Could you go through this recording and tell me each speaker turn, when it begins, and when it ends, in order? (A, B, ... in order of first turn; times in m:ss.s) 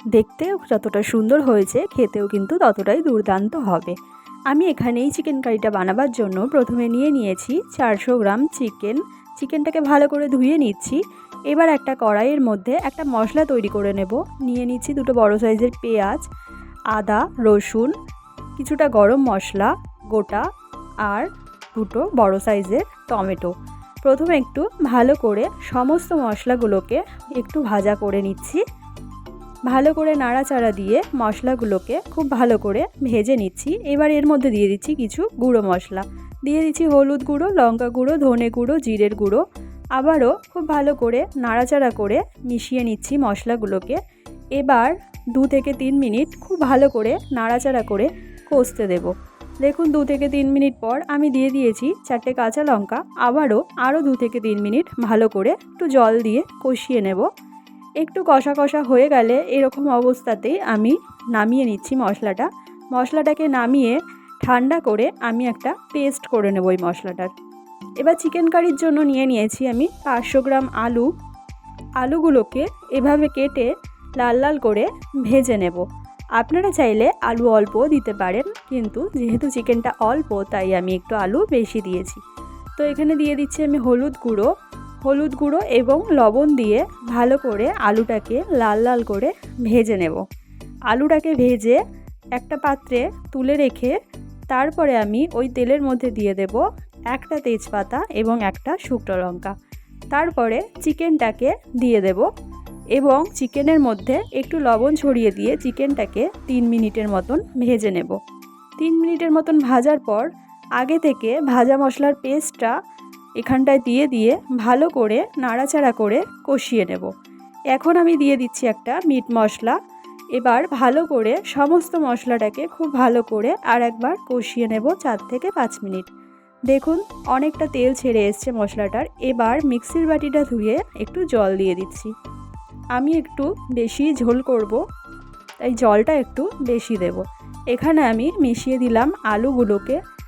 0:00.1-0:03.9 A
0:04.5-0:11.0 A
0:11.5-0:16.2 A
0:16.9-0:17.9 A
0:18.6-0:20.4 A
0:21.0-0:23.5 A
0:24.0-0:28.6 A
0:29.7-0:39.4 A
0:40.0-0:44.0 A
0:44.6-0:57.3 A
0:58.0-1:07.3 A
1:08.0-1:11.1 A
1:12.0-1:15.8 A
1:16.4-1:22.2 A
1:22.8-1:24.5 A
1:25.0-1:30.2 A
1:30.9-1:31.8 A
1:32.3-1:33.9 A
1:34.5-1:39.5 A
1:40.1-1:42.3 A
1:42.9-1:48.2 A
1:48.8-1:50.3 A
1:50.8-1:52.7 A
1:53.4-1:57.1 A
1:57.7-1:59.8 A
2:00.3-2:06.1 A
2:06.7-2:12.1 A
2:12.9-2:14.8 A
2:15.6-2:20.0 A